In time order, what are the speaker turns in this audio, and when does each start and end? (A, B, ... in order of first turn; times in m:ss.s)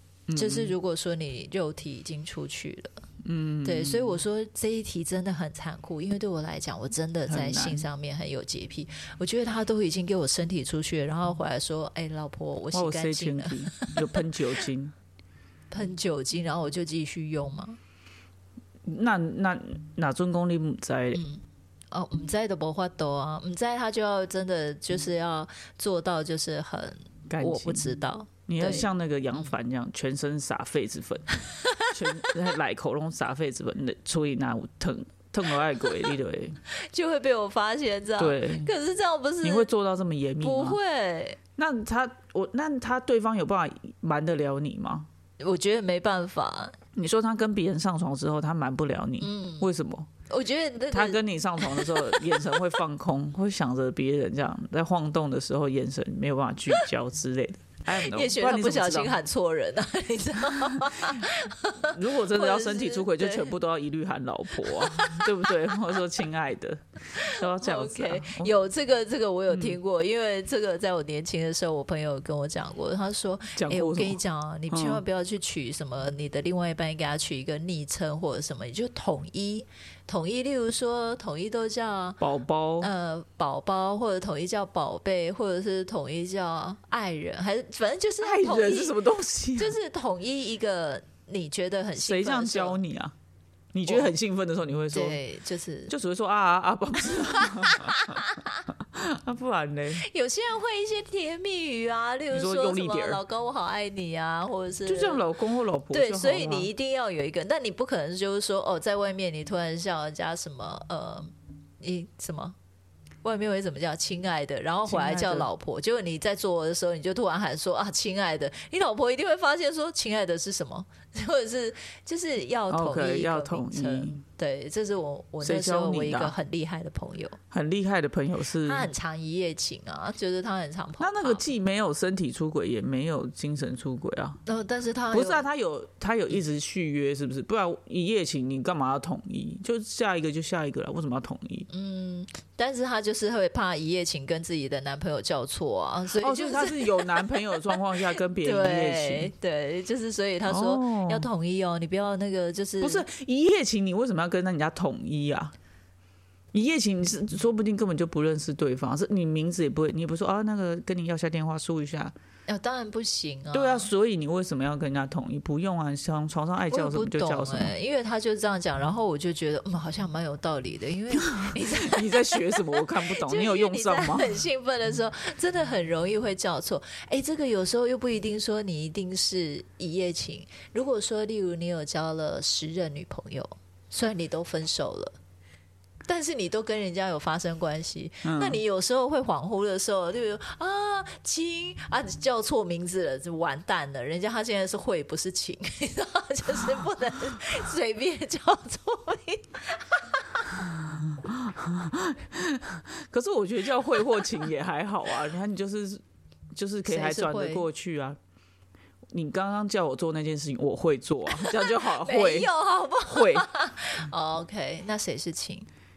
0:00.3-0:00.7 A
0:00.3-0:03.0 B
0:03.2-0:04.2 A
0:03.6-0:14.3 B
0:07.3-0:07.8 A
0:12.7-0:14.9 A
0:15.7-0:17.8 B
0:18.8-0:21.2 A
0:21.1-0:28.9 B
0:27.3-0:27.9 A
0:28.5-0:31.3 A
0:31.6-0:32.3 B
0:31.9-0:36.6 A
0:36.7-0:39.7 B
0:38.2-0:38.7 A
0:39.4-0:40.8 A
0:40.4-0:41.4 B
0:41.6-0:45.1 A
0:45.4-0:46.8 B
0:46.9-0:50.1 A
0:49.2-0:49.7 B
0:50.3-0:52.7 B
0:50.9-0:59.2 A
0:57.9-1:03.5 B
1:00.6-1:01.2 A
1:01.8-1:08.5 A
1:04.6-1:05.4 B
1:07.1-1:22.2 B
1:09.5-1:09.8 A
1:13.6-1:15.0 A
1:22.2-1:22.9 A
1:22.8-1:29.0 B
1:28.2-1:29.8 A
1:29.6-1:32.8 B
1:32.0-1:33.1 A
1:33.7-1:35.2 A
1:33.9-1:34.1 B
1:34.9-1:35.9 B
1:35.9-1:40.1 A
1:37.3-1:38.6 B
1:40.0-1:45.2 B
1:42.3-1:43.2 A
1:44.8-1:46.7 A
1:45.9-1:52.6 B
1:53.2-2:07.4 B
1:54.8-1:55.5 A
2:02.7-2:04.2 A
2:05.4-2:06.3 A
2:07.5-2:08.9 A
2:08.6-2:11.5 B
2:11.0-2:14.4 A
2:14.4-2:15.4 B
2:15.1-2:21.7 A
2:21.7-2:33.0 B
2:26.1-2:29.3 A
2:30.5-2:31.3 A
2:32.8-2:35.5 A
2:36.5-2:42.1 A
2:42.5-2:43.9 B
2:43.5-2:47.7 A
2:46.7-3:05.1 B
2:51.1-2:54.4 A
3:06.0-3:20.5 B
3:08.2-3:08.6 A
3:20.6-3:26.0 A
3:26.5-3:28.2 A
3:26.9-3:27.6 B
3:29.1-3:32.5 A
3:31.3-3:35.7 B
3:33.1-3:33.5 A